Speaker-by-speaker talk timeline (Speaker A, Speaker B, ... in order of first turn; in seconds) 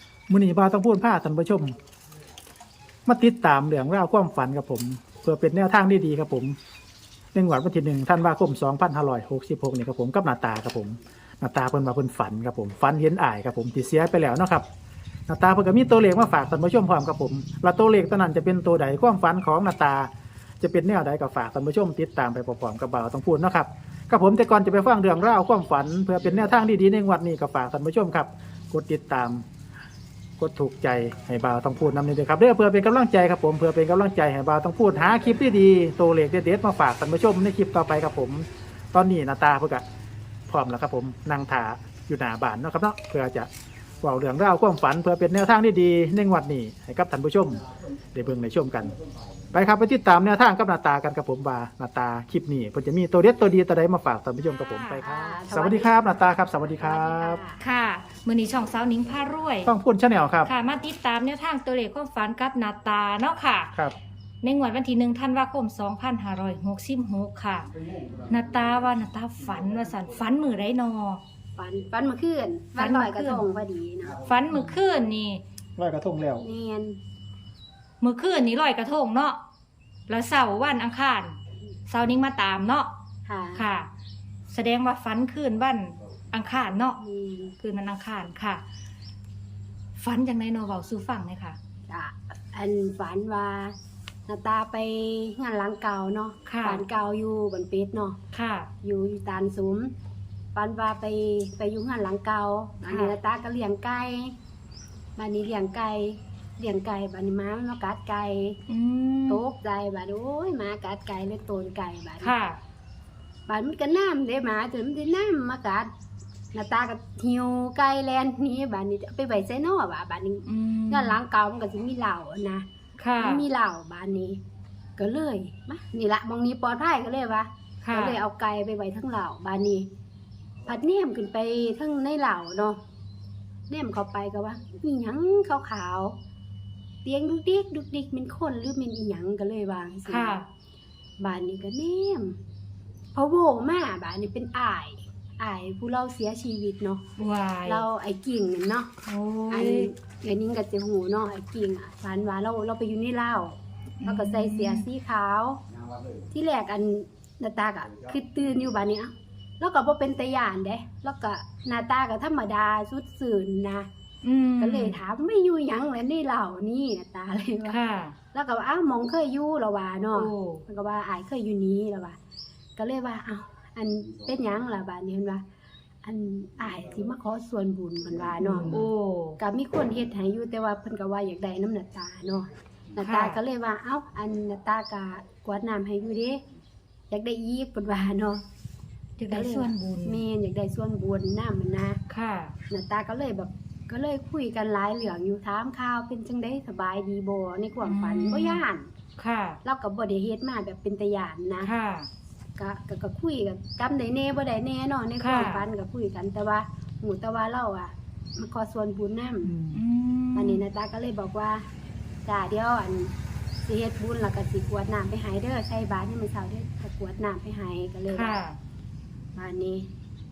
Speaker A: 0.3-1.7, 3.0-6.5, 7.3-14.7, 15.3-29.4, 30.4-39.8, 40.5-43.5, 44.0-47.6, 48.1-48.9, 49.5-57.4, 59.6-60.5, 75.8-76.5, 209.4-209.8
Speaker B: 54.5-55.0, 57.6-59.7, 60.5-63.8, 64.4-71.2, 72.8-73.5, 74.2-75.4, 78.0-79.4, 80.1-81.4, 81.9-82.9, 83.5-83.9, 84.5-87.0, 87.6-88.6, 90.0-91.6, 96.5-96.9, 98.3-98.7, 102.8-103.2, 108.7-109.5, 112.2-112.6, 120.5-121.2, 123.0-123.5, 127.8-128.2, 140.1-140.4, 147.2-147.8, 149.1-149.9, 154.0-154.9, 164.2-165.0, 167.7-168.2, 170.1-170.6, 178.4-179.4, 183.0-183.4, 189.2-190.2, 192.1-192.6, 197.8-198.6, 199.2-199.6, 201.6-202.1, 205.2-205.7, 209.7-210.6, 218.1-218.6
Speaker C: 55.0-56.0, 56.8-57.6, 71.6-74.2, 76.4-77.0, 83.2-83.7, 87.0-87.6, 91.9-93.8, 94.3-98.2, 98.8-99.9, 100.5-104.4, 105.2-108.6, 109.3-112.3, 113.5-115.9, 116.5-122.7, 123.2-124.4, 125.0-129.9, 130.7-132.8, 133.7-136.2, 137.0-140.4, 141.2-142.4, 143.1-147.0, 147.7-148.9, 149.5-155.6, 156.3-163.9, 164.6-167.8, 168.3-172.2, 172.8-175.4, 176.0-178.8, 179.4-186.4, 187.1-188.4, 189.3-192.0, 192.7-198.9, 199.6-201.7, 202.6-209.6, 210.3-211.7, 212.2-218.4, 219.3-219.9